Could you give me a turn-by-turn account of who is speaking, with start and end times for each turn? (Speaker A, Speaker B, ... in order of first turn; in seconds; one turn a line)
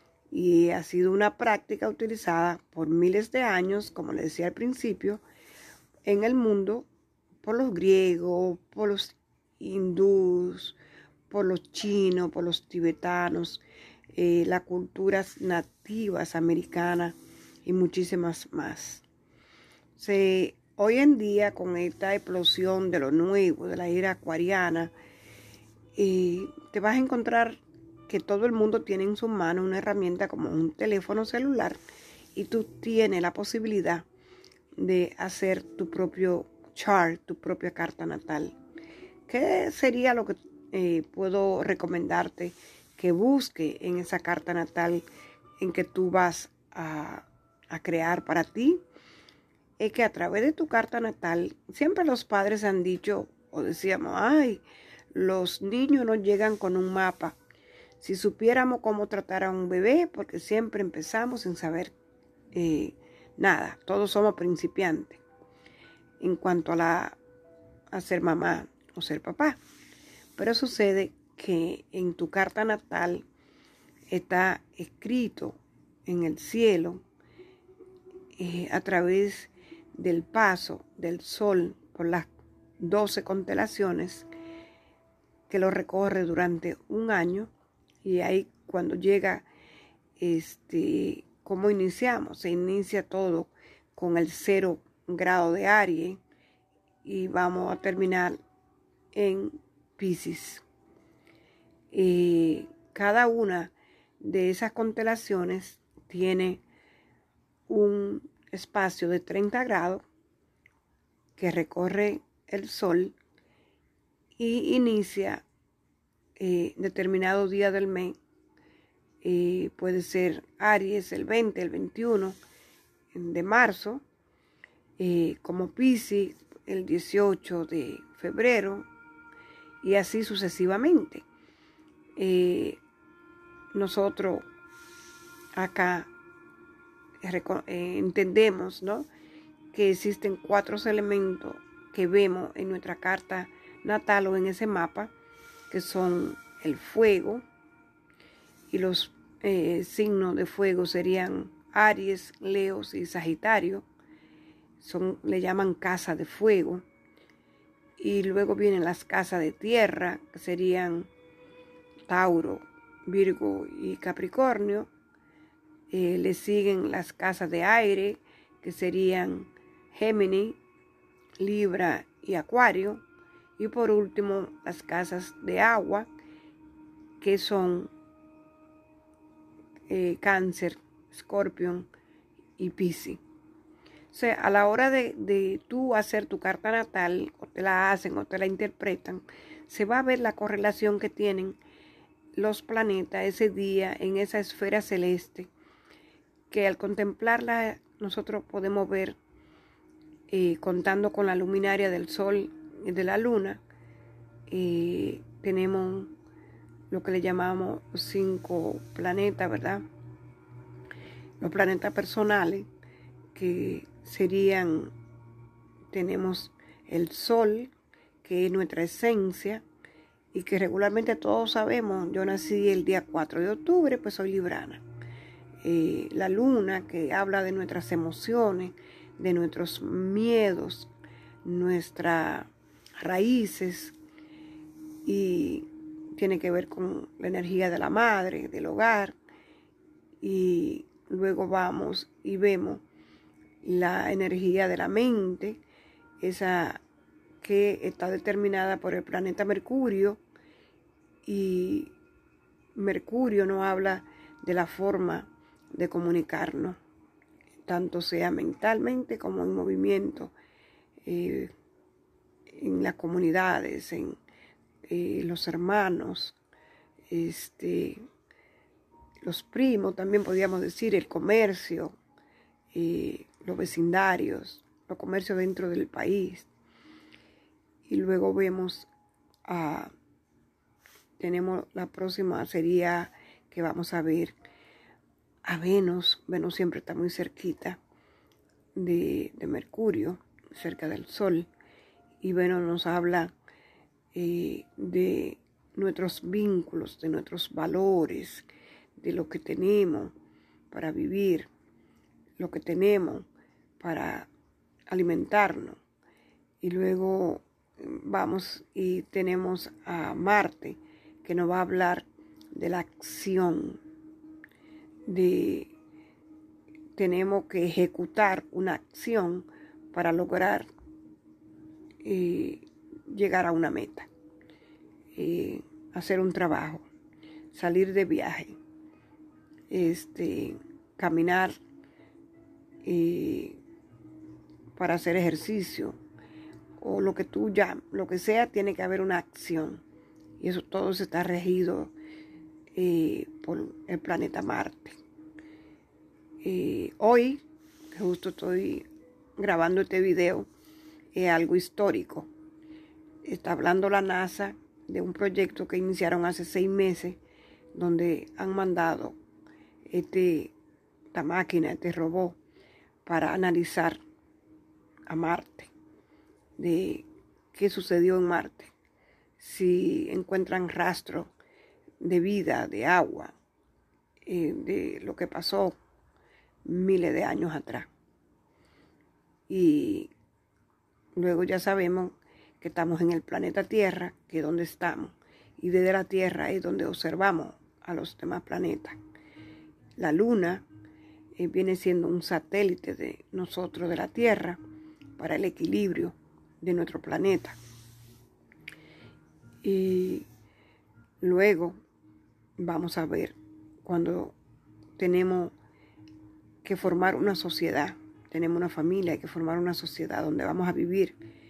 Speaker A: 0.3-5.2
Speaker A: 6.0-6.9
Speaker A: 7.4-10.8
Speaker A: 11.3-13.6
Speaker A: 14.2-19.0
Speaker A: 20.0-24.9
Speaker A: 26.0-31.8
Speaker A: 32.4-34.1
Speaker A: 34.8-38.6
Speaker A: 39.3-45.0
Speaker A: 45.6-48.8
Speaker A: 49.8-57.4
Speaker A: 58.0-61.9
Speaker A: 62.5-65.2
Speaker A: 66.2-67.2
Speaker A: 67.9-69.6
Speaker A: 70.4-73.2
Speaker A: 74.1-77.0
Speaker A: 78.4-84.3
Speaker A: 85.5-87.5
Speaker A: 88.0-89.5
Speaker A: 90.2-96.2
Speaker A: 97.0-98.4
Speaker A: 99.1-100.6
Speaker A: 101.9-106.6
Speaker A: 107.7-110.0
Speaker A: 111.4-113.2
Speaker A: 114.4-115.5
Speaker A: 116.4-118.2
Speaker A: 119.2-122.4
Speaker A: 123.1-124.0
Speaker A: 125.0-128.9
Speaker A: 129.8-131.2
Speaker A: 132.2-132.8
Speaker A: 133.7-134.5
Speaker A: 135.6-136.1
Speaker A: 137.2-139.1
Speaker A: 139.7-145.1
Speaker A: 145.7-147.4
Speaker A: 148.7-153.9
Speaker A: 154.8-156.8
Speaker A: 158.0-161.1
Speaker A: 162.1-164.9
Speaker A: 165.9-170.6
Speaker A: 171.4-173.0
Speaker A: 173.6-176.1
Speaker A: 177.2-177.9
Speaker A: 179.9-181.9
Speaker A: 182.6-183.2
Speaker A: 184.1-191.6
Speaker A: 192.4-195.5
Speaker A: 196.5-199.2
Speaker A: 200.3-203.6
Speaker A: 204.5-206.1
Speaker A: 206.9-209.8
Speaker A: 211.4-212.7
Speaker A: 213.3-214.9
Speaker A: 215.9-217.7
Speaker A: 218.2-219.6
Speaker A: 220.3-224.8
Speaker A: 225.6-230.9
Speaker A: 231.4-233.9
Speaker A: 235.1-239.2
Speaker A: 240.2-242.8
Speaker A: 243.6-245.6
Speaker A: 246.2-246.8
Speaker A: 247.4-250.2
Speaker A: 251.2-251.9
Speaker A: 252.8-256.8
Speaker A: 257.7-260.3
Speaker A: 261.1-261.5
Speaker A: 262.5-264.2
Speaker A: 264.9-266.4
Speaker A: 267.1-268.0
Speaker A: 269.2-272.0
Speaker A: 272.7-276.5
Speaker A: 277.9-278.9
Speaker A: 279.5-279.9
Speaker A: 281.2-284.4
Speaker A: 285.4-287.8
Speaker A: 288.8-291.5
Speaker A: 292.2-293.3
Speaker A: 294.1-300.1
Speaker A: 300.7-301.5
Speaker A: 302.4-303.3
Speaker A: 303.8-304.3
Speaker A: 304.9-305.8
Speaker A: 306.6-313.8
Speaker A: 315.1-315.7
Speaker A: 317.0-320.7
Speaker A: 322.0-324.1
Speaker A: 325.1-326.9
Speaker A: 327.5-328.6
Speaker A: 329.7-331.6
Speaker A: 332.8-333.6
Speaker A: 334.8-336.0
Speaker A: 336.8-339.8
Speaker A: 340.4-341.9
Speaker A: 342.8-345.0
Speaker A: 346.4-348.9
Speaker A: 349.4-350.5
Speaker A: 351.1-352.3
Speaker A: 353.2-357.2
Speaker A: 357.7-359.2
Speaker A: 359.9-360.5
Speaker A: 361.1-362.4
Speaker A: 363.1-364.0
Speaker A: 365.1-365.7
Speaker A: 366.6-368.7
Speaker A: 369.4-371.3
Speaker A: 372.0-373.4
Speaker A: 374.3-375.8
Speaker A: 376.6-377.9
Speaker A: 379.5-380.1
Speaker A: 381.2-389.0
Speaker A: 390.0-390.6
Speaker A: 391.4-394.6
Speaker A: 395.2-397.6
Speaker A: 399.6-400.3
Speaker A: 401.2-401.8
Speaker A: 402.6-404.4
Speaker A: 405.0-405.5
Speaker A: 406.6-411.2